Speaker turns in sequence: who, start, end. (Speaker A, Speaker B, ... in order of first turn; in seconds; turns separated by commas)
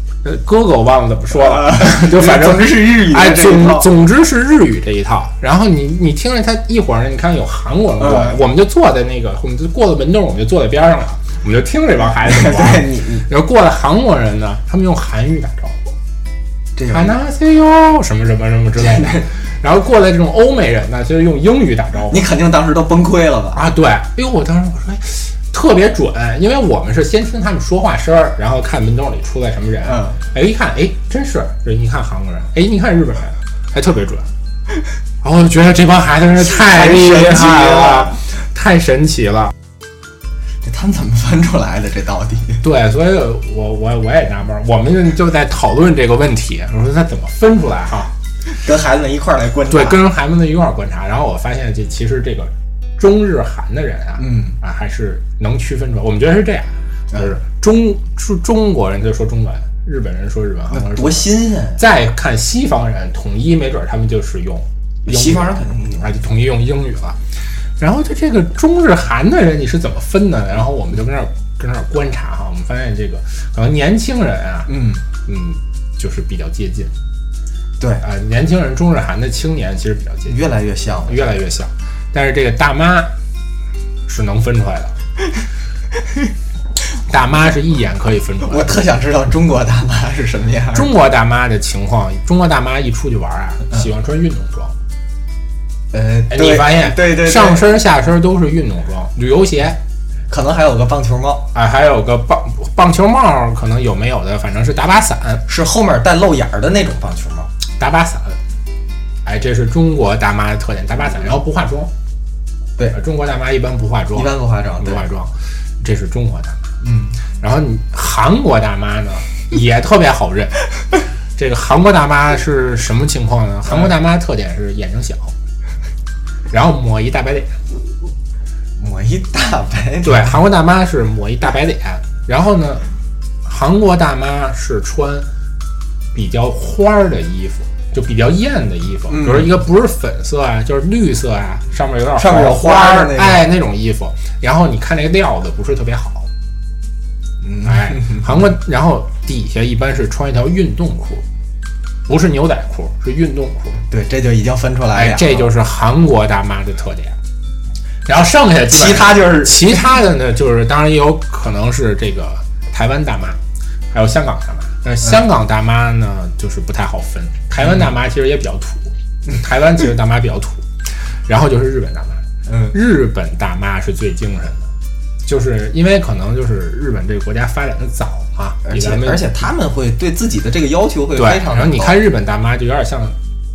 Speaker A: 0.2-15.9, Speaker B: 1.3-3.9, Speaker B: 8.0-8.4, Speaker B: 12.1-13.3, Speaker B: 16.8-17.2, Speaker A: 16.9-22.3, Speaker B: 18.8-19.3, Speaker B: 22.1-23.6, Speaker A: 23.5-34.3, Speaker B: 29.8-30.2, Speaker A: 35.2-39.5, Speaker B: 36.4-38.2, Speaker B: 40.6-42.6, Speaker A: 42.6-48.1, Speaker B: 48.6-50.0, Speaker A: 49.7-67.2, Speaker B: 54.2-54.6, Speaker B: 60.7-61.8, Speaker B: 65.0-66.1, Speaker A: 67.8-76.9, Speaker B: 74.7-75.0, Speaker A: 78.0-80.4, Speaker B: 80.3-81.4, Speaker A: 81.1-83.1, Speaker A: 84.1-85.0, Speaker A: 87.1-88.8, Speaker B: 88.4-90.9, Speaker A: 90.7-94.7, Speaker B: 95.9-97.8, Speaker A: 96.3-99.8, Speaker B: 100.3-101.5, Speaker A: 101.5-105.5, Speaker B: 105.5-107.5, Speaker A: 107.8-108.4, Speaker A: 109.2-111.9, Speaker A: 112.9-116.7, Speaker B: 114.1-115.0, Speaker B: 116.8-117.2, Speaker A: 117.4-120.7, Speaker A: 121.4-125.3, Speaker A: 126.5-127.6, Speaker B: 128.8-130.4, Speaker A: 130.0-132.8, Speaker A: 133.4-135.3, Speaker A: 136.1-146.3, Speaker B: 139.1-139.6, Speaker B: 142.2-143.5, Speaker B: 147.4-148.4, Speaker A: 147.6-151.2, Speaker A: 152.1-153.8, Speaker B: 153.9-155.5, Speaker A: 154.9-157.2, Speaker A: 158.1-163.4, Speaker B: 158.7-159.8, Speaker A: 163.9-170.7, Speaker B: 167.6-167.9, Speaker A: 171.3-174.7, Speaker B: 172.5-172.8, Speaker A: 175.2-179.3, Speaker B: 178.7-182.0, Speaker A: 181.2-183.2